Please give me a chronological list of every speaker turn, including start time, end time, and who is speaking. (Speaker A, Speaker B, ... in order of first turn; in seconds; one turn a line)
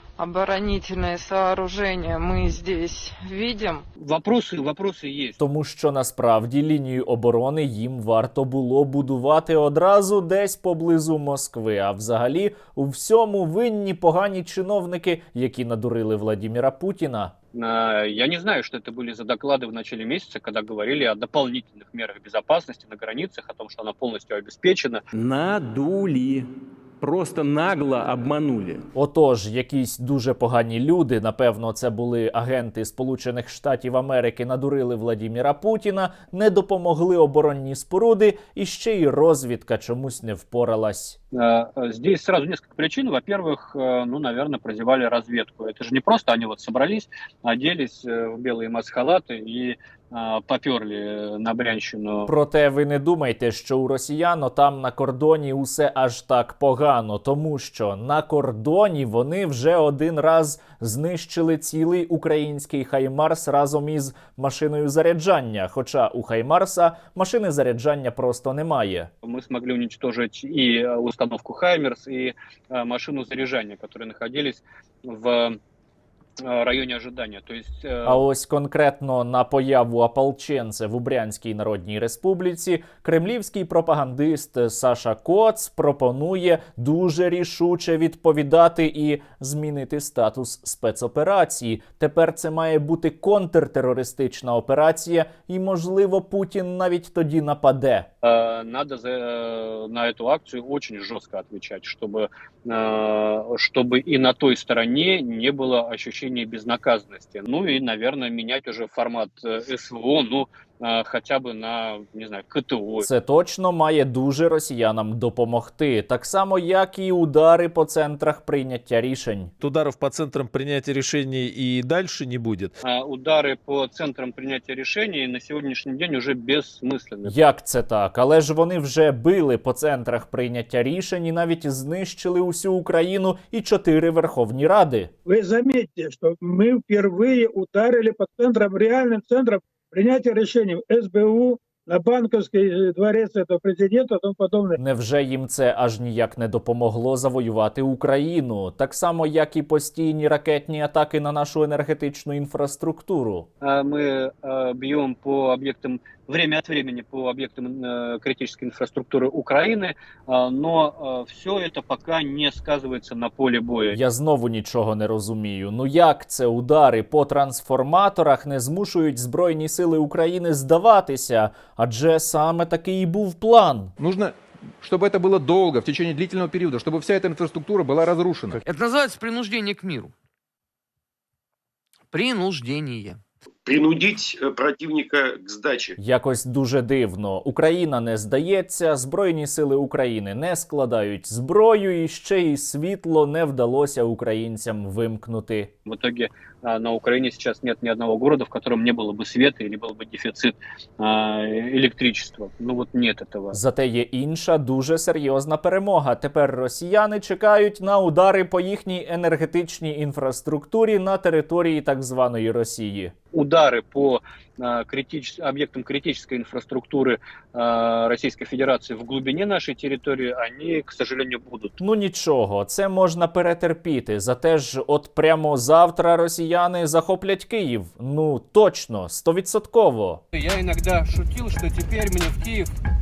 Speaker A: 0.2-3.8
Speaker B: 4.0-5.4
Speaker C: 5.4-17.3
Speaker B: 17.5-25.0
Speaker D: 25.1-28.9
Speaker C: 28.9-41.2
Speaker B: 41.3-52.3
Speaker C: 52.3-69.1
Speaker B: 69.2-75.6
Speaker B: 76.4-78.2
Speaker C: 78.1-98.1
Speaker B: 98.2-113.1
Speaker C: 113.0-119.5
Speaker E: 119.6-122.7
Speaker B: 122.8-127.3
Speaker C: 127.2-135.1
Speaker F: 135.3-144.8
Speaker C: 144.8-153.5
Speaker B: 153.6-164.0
Speaker C: 163.9-173.9
Speaker G: 174.0-178.6
Speaker H: 178.7-180.1
Speaker H: 182.1-183.2
Speaker I: 183.7-185.9
Speaker C: 186.0-195.7
Speaker B: 195.8-203.6
Speaker C: 203.5-213.1
Speaker B: 213.3-221.7
Speaker C: 221.8-230.2
Speaker B: 230.3-232.7